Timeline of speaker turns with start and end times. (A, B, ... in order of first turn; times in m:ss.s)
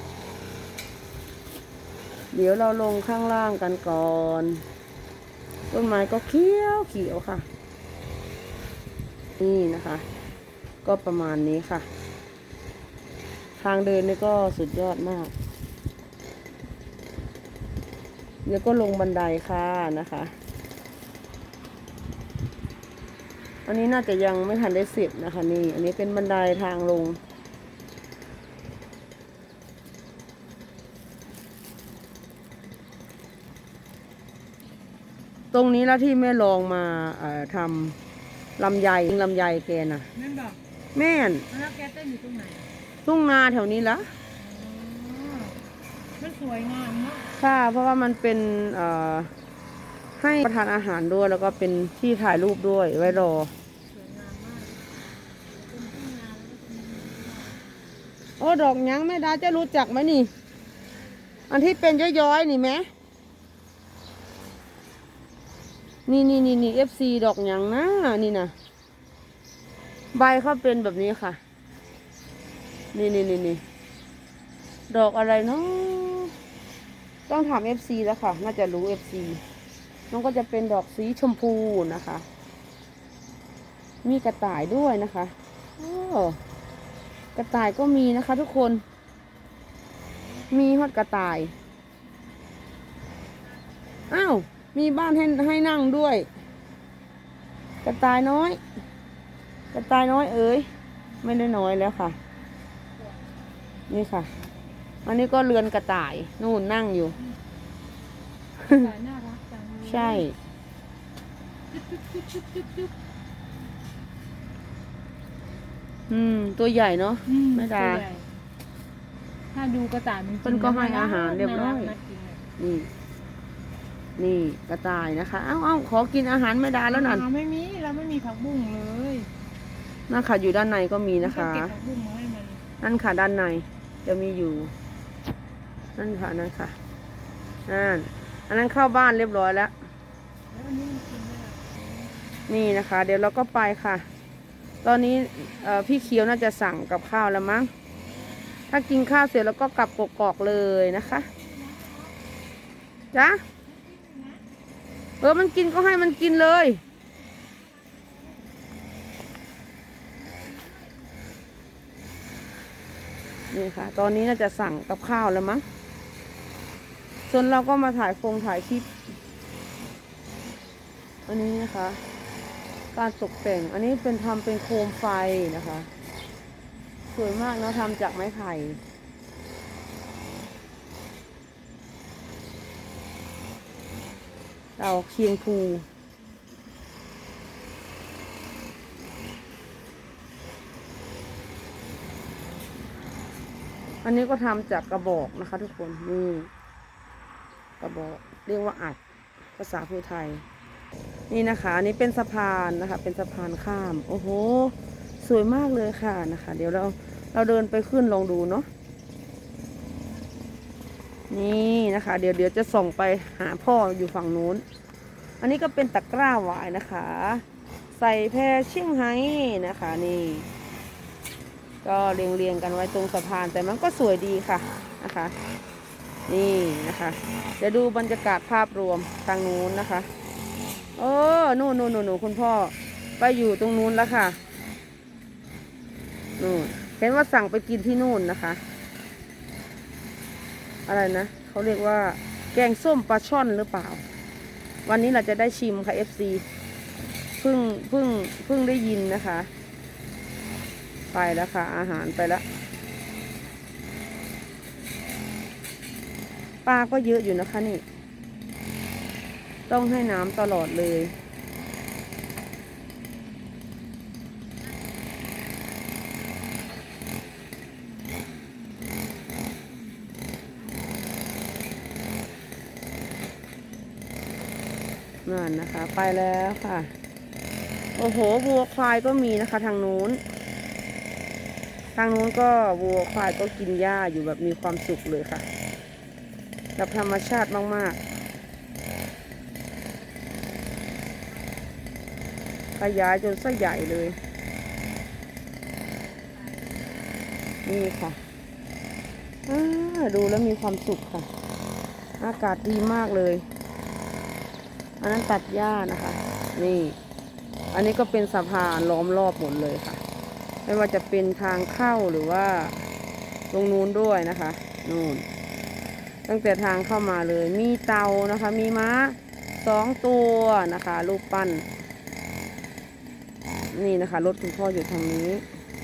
0:02.3-0:04.6 A
0:05.7-0:07.5 A
0:09.4-0:10.0 A
0:10.8-0:11.9 A
0:13.6-0:15.3 A
0:18.4-0:20.3 A
0:23.6-0:27.2 A
0:35.5-0:38.0 A
0:38.6-0:40.1 A
0:40.1-0:40.6 B
0:40.9-0:41.4 A
0:41.5-0:42.7 B
0:43.0-0:44.1 A
0:44.4-0:45.6 B
0:46.2-0:47.3 B
0:47.4-0:49.3 A
0:50.2-0:53.5 A
0:53.9-0:54.8 B
0:55.4-0:58.0 B
0:58.4-1:00.3 A
1:01.5-1:02.9 A
1:06.1-1:08.5 A
1:10.1-1:11.4 A
1:12.9-1:13.6 A
1:14.9-1:16.3 A
1:17.3-1:19.4 A
1:20.1-1:22.2 A
1:24.0-1:26.4 A
1:27.3-1:28.8 A
1:30.5-1:31.5 A
1:34.1-1:36.3 A
1:37.8-1:38.6 A
1:39.7-1:40.7 A
1:41.2-1:42.2 A
1:43.9-1:44.3 A
1:45.0-1:47.2 A
1:48.6-1:50.2 B
1:49.8-1:50.3 A
1:51.7-1:52.9 B
1:56.1-1:58.0 A
1:57.2-1:58.3 B
1:59.5-2:02.4 B
2:00.4-2:01.9 A
2:02.6-2:02.9 A
2:04.2-2:07.2 A
2:06.9-2:09.3 B
2:10.1-2:11.7 A
2:11.2-2:12.6 B
2:12.8-2:14.7 A
2:16.0-2:16.8 A
2:17.7-2:19.7 A
2:20.5-2:21.8 B
2:22.5-2:24.1 A
2:24.8-2:27.7 A
2:28.7-2:31.3 A
2:31.3-2:32.2 B
2:33.1-2:33.4 A
2:33.6-2:34.4 B
2:35.2-2:36.8 A
2:37.6-2:38.5 B
2:43.5-2:45.6 A
2:47.3-2:48.9 A
2:51.3-2:52.0 A
2:52.9-2:55.9 A
2:57.1-2:58.8 A
3:04.8-3:05.8 A
3:14.0-3:16.5 A
3:17.8-3:19.0 A
3:19.5-3:20.4 A
3:21.3-3:28.7 A
3:31.3-3:34.6 A
3:35.4-3:40.5 A
3:41.8-3:45.3 A
3:46.3-3:50.1 A
3:51.0-3:54.4 A
3:56.4-3:58.6 A
4:00.9-4:04.0 A
4:04.8-4:06.4 A
4:07.4-4:09.5 A
4:11.1-4:12.4 A
4:16.6-4:17.8 A
4:19.7-4:21.1 A
4:35.2-4:36.9 A
4:38.0-4:40.2 A
4:41.9-4:45.4 A
4:46.8-4:48.0 A
4:52.8-4:54.2 A
4:57.6-4:58.2 A
4:59.5-5:01.3 A
5:02.2-5:03.4 A
5:05.0-5:07.0 A
5:07.7-5:10.0 A
5:10.6-5:12.9 A
5:13.5-5:15.2 A
5:16.3-5:21.6 A
5:23.7-5:25.4 A